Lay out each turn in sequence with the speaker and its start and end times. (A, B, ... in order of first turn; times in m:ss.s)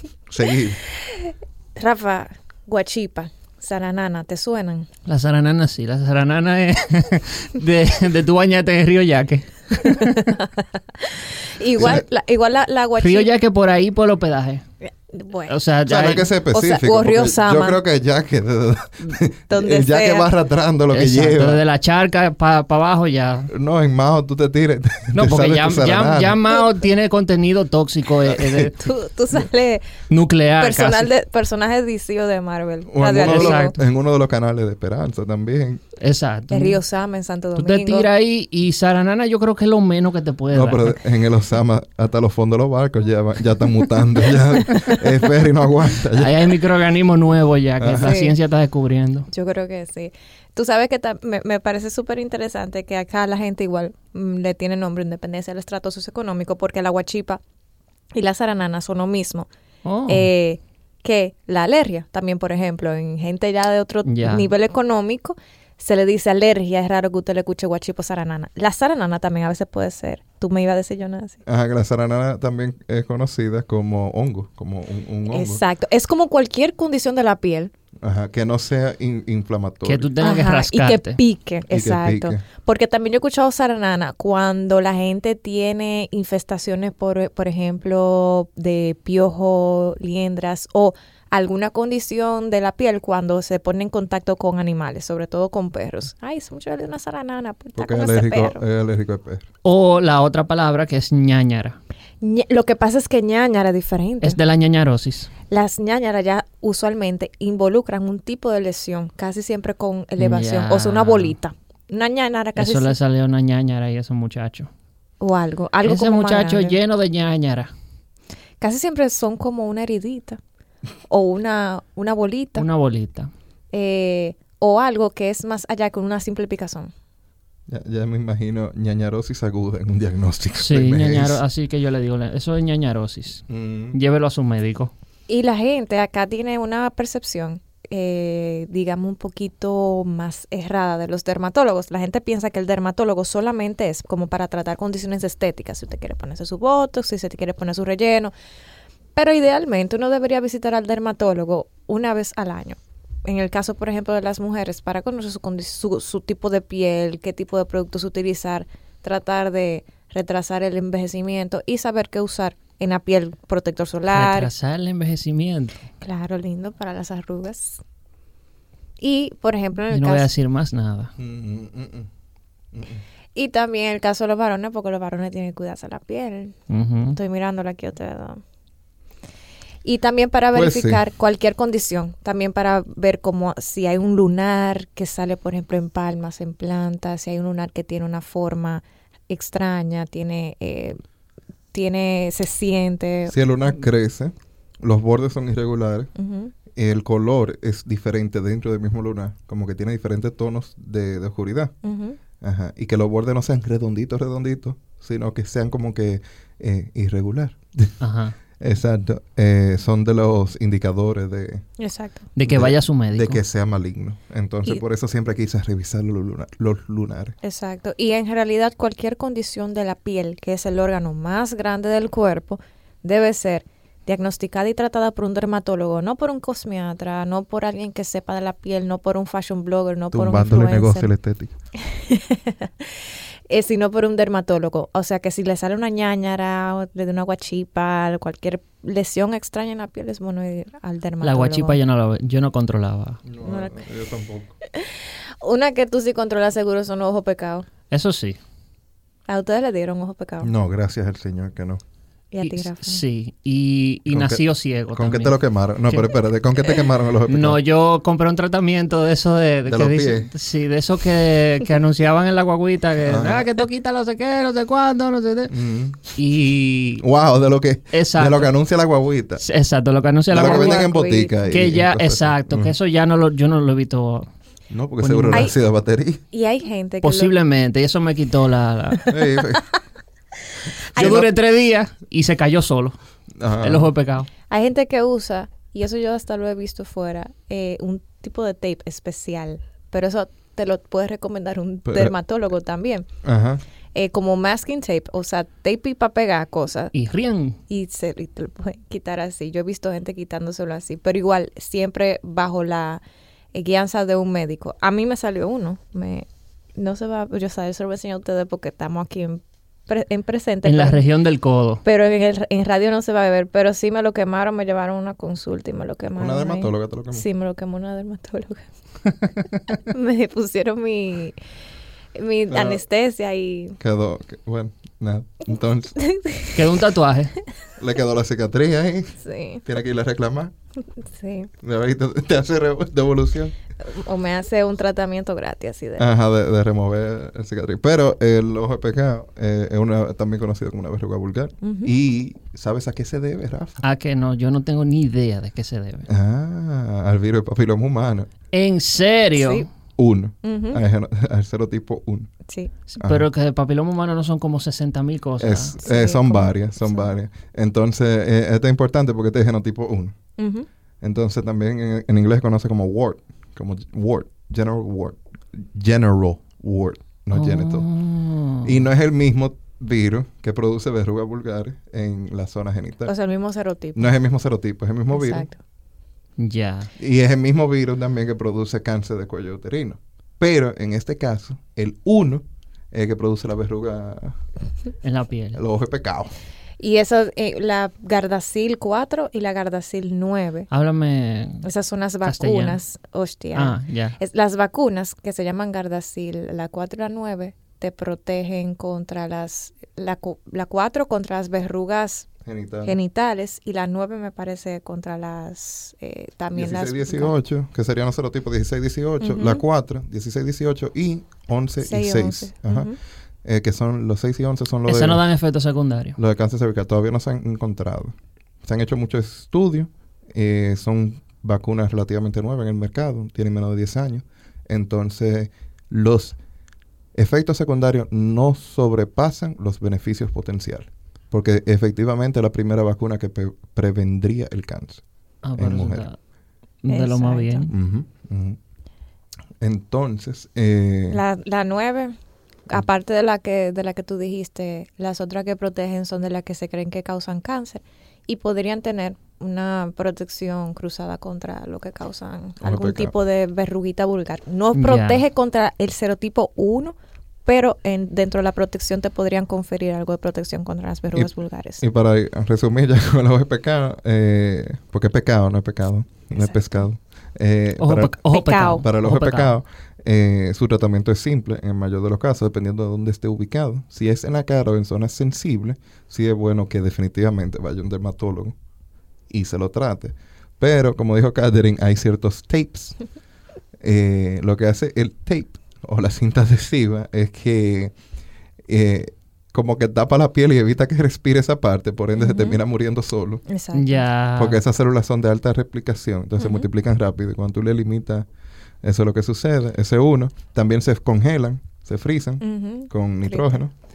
0:00.3-0:00.8 A
0:01.0-0:04.9 B
0:05.0-0:10.3 C
0:09.8-0:13.3 B
0:11.8-0:12.0 A
0:13.0-0:14.6 C
0:14.8-0:15.5 B
0:15.5-0:16.3 C
0:15.8-0:21.6 A
0:16.5-0:17.8 B
0:19.5-0:20.3 B
0:20.9-0:23.5 C
0:23.5-0:26.4 A
0:25.1-0:28.8 C
0:28.3-0:28.6 A
0:28.6-0:29.9 B
0:30.1-0:31.1 C
0:30.6-0:33.7 B
0:32.9-0:35.8 A
0:33.2-0:33.8 C
0:36.0-0:36.8 C
0:36.5-0:38.1 B
0:37.6-0:41.0 C
0:40.5-0:46.5 A
0:46.1-0:49.3 C
0:47.8-0:48.2 A
0:48.0-0:48.3 B
0:49.3-0:57.4 B
0:58.1-0:59.5 B
0:59.8-1:00.3 C
1:00.1-1:11.4 B
1:04.0-1:04.4 C
1:11.4-1:15.6 A
1:15.3-1:17.7 B
1:18.0-1:20.1 A
1:19.8-1:21.2 C
1:20.2-1:38.6 B
1:21.7-1:22.4 A
1:37.7-1:39.4 A
1:39.6-1:41.8 C
1:42.2-1:44.4 B
1:44.2-1:45.3 C
1:45.5-1:53.0 B
1:50.2-1:51.3 C
1:52.6-1:54.7 C
1:55.2-1:56.8 B
1:55.8-1:57.7 C
1:58.6-2:00.4 B
2:01.1-2:02.7 B
2:02.6-2:03.3 C
2:03.7-2:06.9 B
2:07.7-2:11.4 A
2:10.6-2:14.9 C
2:13.5-2:14.0 A
2:15.3-2:28.3 B
2:29.1-2:44.5 B
2:44.1-2:45.8 C
2:46.0-2:47.8 B
2:49.0-2:50.3 B
2:49.9-2:51.1 C
2:51.2-2:52.1 A
2:52.7-2:53.0 A
2:53.3-2:56.5 B
2:56.7-2:57.2 C
2:57.1-2:58.4 B
2:59.8-3:11.0 B
3:00.5-3:01.0 A
3:11.7-3:13.4 B
3:13.3-3:16.1 A
3:16.1-3:16.5 B
3:16.7-3:21.7 A
3:21.8-3:22.2 B
3:22.4-3:28.0 A
3:28.0-3:28.3 C
3:28.6-3:31.6 A
3:31.8-3:32.3 B
3:32.4-3:33.4 C
3:32.4-3:37.3 A
3:37.4-3:51.1 B
3:50.1-3:51.5 A
3:51.8-4:01.8 B
4:01.2-4:03.2 C
4:03.2-4:04.6 A
4:03.4-4:03.8 B
4:04.8-4:07.6 B
4:07.9-4:08.4 C
4:09.3-4:10.5 B
4:10.4-4:11.8 A
4:12.3-4:13.0 B
4:12.4-4:15.4 C
4:14.1-4:17.6 A
4:17.3-4:25.5 C
4:19.6-4:20.3 A
4:23.0-4:23.5 A
4:25.5-4:26.0 A
4:26.2-4:27.0 C
4:27.0-4:29.4 A
4:27.9-4:28.5 C
4:29.4-4:30.9 C
4:30.3-4:32.7 A
4:30.4-4:31.4 B
4:31.5-4:34.3 C
4:34.7-4:36.2 A
4:35.0-4:35.5 C
4:36.3-4:37.3 B
4:37.0-4:39.1 C
4:39.1-4:39.6 A
4:40.9-4:41.3 B
4:40.9-4:41.3 A
4:40.9-4:42.9 C
4:43.4-4:43.9 A
4:43.6-4:44.3 C
4:44.5-4:53.1 B
4:51.8-4:52.1 A
4:53.2-4:53.6 A
4:53.9-4:56.9 B
4:56.9-4:57.6 C
4:57.7-5:03.0 B
5:03.5-5:11.1 B
5:10.6-5:11.8 C
5:11.8-5:18.6 B
5:16.2-5:17.2 A
5:19.8-5:21.4 B
5:22.1-5:23.8 B
5:22.5-5:22.8 A
5:23.8-5:26.0 A
5:26.0-5:26.6 B
5:26.5-5:27.3 C
5:27.8-5:30.5 A
5:29.2-5:29.6 B
5:31.0-5:31.5 B
5:31.6-5:33.5 A
5:33.8-5:36.1 B
5:36.0-5:43.8 A
5:41.6-5:41.9 B
5:43.8-5:46.1 C
5:46.1-5:48.3 A
5:48.5-5:49.7 C
5:49.4-5:49.7 B
5:50.0-5:52.3 A
5:50.4-5:50.8 B
5:52.9-5:55.7 C
5:53.0-5:53.2 A
5:55.4-6:00.1 A
5:55.8-5:57.1 B
6:00.4-6:00.7 B
6:01.0-6:07.9 A
6:07.3-6:08.8 C
6:08.6-6:13.1 A
6:13.1-6:14.1 B
6:14.0-6:15.5 A
6:15.1-6:15.6 B
6:16.4-6:16.9 C
6:17.0-6:24.4 A
6:25.0-6:25.6 C
6:25.5-6:26.3 A
6:26.8-6:30.7 B
6:30.7-6:31.6 C
6:31.6-6:42.3 B
6:32.2-6:32.8 C
6:33.5-6:34.2 C
6:42.4-6:43.0 A
6:42.8-6:47.3 B
6:46.5-6:52.9 A
6:49.2-6:49.6 B
6:51.8-6:53.0 B
6:53.4-6:55.2 A
6:54.8-6:56.2 C
6:56.2-7:06.4 A
7:07.1-7:15.0 A
7:15.4-7:16.2 C
7:15.6-7:16.0 A
7:16.8-7:17.7 C
7:16.9-7:17.7 B
7:17.7-7:18.6 A
7:19.6-7:21.2 A
7:21.1-7:22.1 B
7:22.7-7:41.8 B
7:32.6-7:33.1 A
7:34.7-7:35.2 C
7:41.1-7:48.2 A
7:46.4-7:46.8 B
7:47.8-7:49.5 C
7:48.3-7:48.8 B
7:48.8-7:58.5 A
7:59.3-8:03.0 A
8:03.8-8:07.9 A
8:08.7-8:13.4 A
8:12.2-8:12.6 B
8:13.5-8:14.0 B
8:13.7-8:14.6 C
8:14.4-8:18.3 A
8:16.4-8:16.7 B
8:18.8-8:23.7 A
8:22.4-8:23.6 B